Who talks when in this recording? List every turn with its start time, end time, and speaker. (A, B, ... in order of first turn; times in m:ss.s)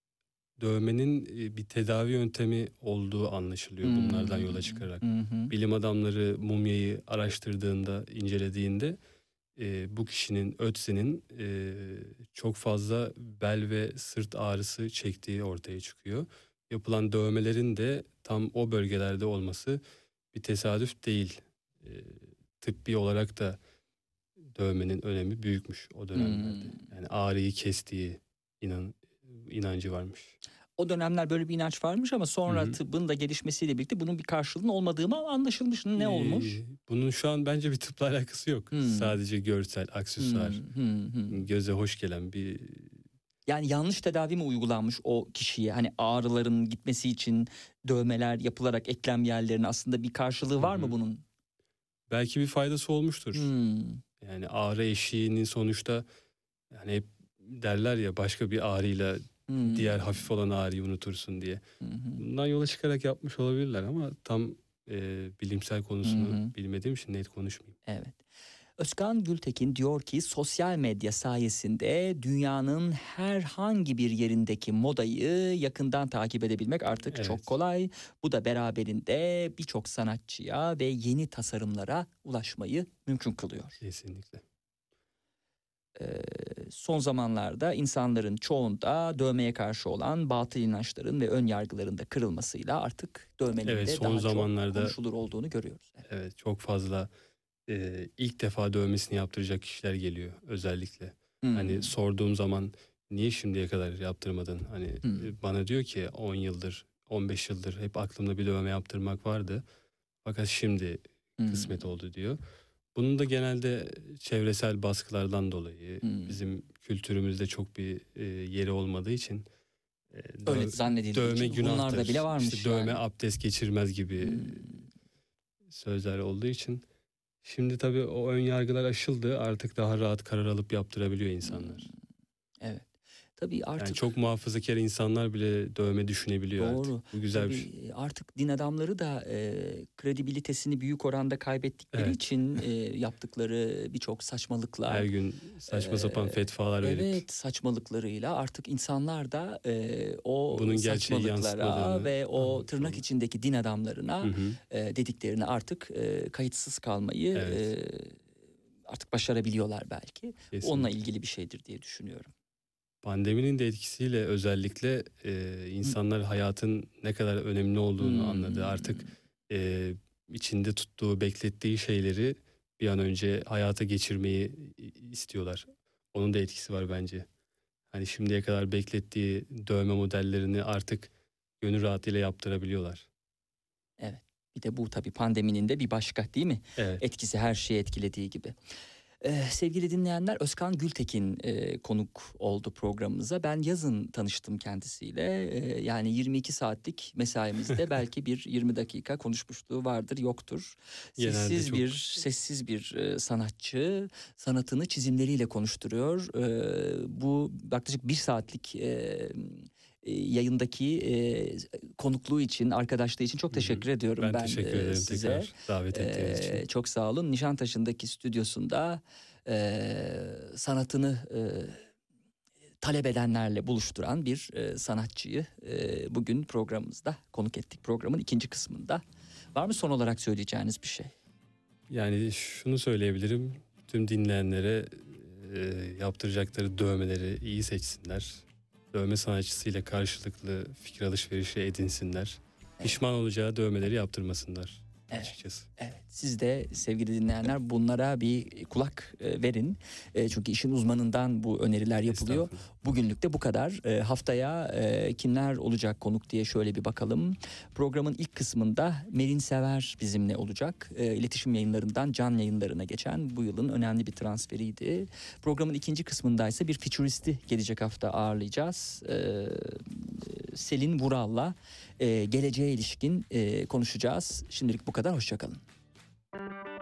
0:00.6-0:09.0 A
0:03.8-0:05.5 B
0:09.6-0:19.8 A
0:20.3-0:23.6 A
0:24.5-0:30.3 A
0:26.1-0:26.8 B
0:30.8-0:36.6 B
0:32.5-0:32.8 A
0:36.0-0:40.6 A
0:38.7-0:39.1 B
0:40.2-0:41.4 B
0:41.3-0:43.0 A
0:43.4-0:51.2 B
0:50.6-0:50.9 A
0:52.1-0:53.5 A
0:53.3-0:54.0 B
0:54.2-0:56.0 A
0:56.7-1:01.6 A
0:59.5-1:00.2 B
1:01.8-1:02.2 B
1:02.2-1:07.8 A
1:06.0-1:06.5 B
1:07.9-1:08.2 B
1:08.8-1:23.8 B
1:17.1-1:17.4 A
1:23.8-1:24.4 A
1:26.0-1:36.0 B
1:33.6-1:34.9 A
1:36.1-1:37.1 A
1:37.7-1:49.6 A
1:41.4-1:41.9 B
1:50.2-1:52.4 A
1:51.4-1:51.8 B
1:52.9-1:59.5 A
1:56.0-1:56.4 B
2:00.1-2:04.8 A
2:00.4-2:03.0 B
2:04.2-2:04.8 B
2:05.7-2:06.8 A
2:07.4-2:11.9 A
2:11.4-2:11.9 B
2:12.6-2:14.1 B
2:13.8-2:17.6 A
2:16.6-2:25.1 B
2:24.9-2:27.2 A
2:25.7-2:38.2 B
2:30.5-2:33.0 A
2:34.2-2:34.6 A
2:37.3-2:37.7 A
2:38.9-2:42.3 B
2:40.5-2:40.9 A
2:43.0-2:57.2 A
2:48.0-2:49.1 B
2:57.9-3:01.1 A
3:01.6-3:03.0 A
3:04.0-3:08.6 B
3:06.8-3:07.0 A
3:09.2-3:41.8 B
3:21.2-3:22.1 A
3:33.5-3:36.6 A
3:42.8-3:49.0 B
3:49.5-3:51.1 B
3:51.9-4:05.6 A
4:05.1-4:35.6 B
4:12.1-4:12.7 A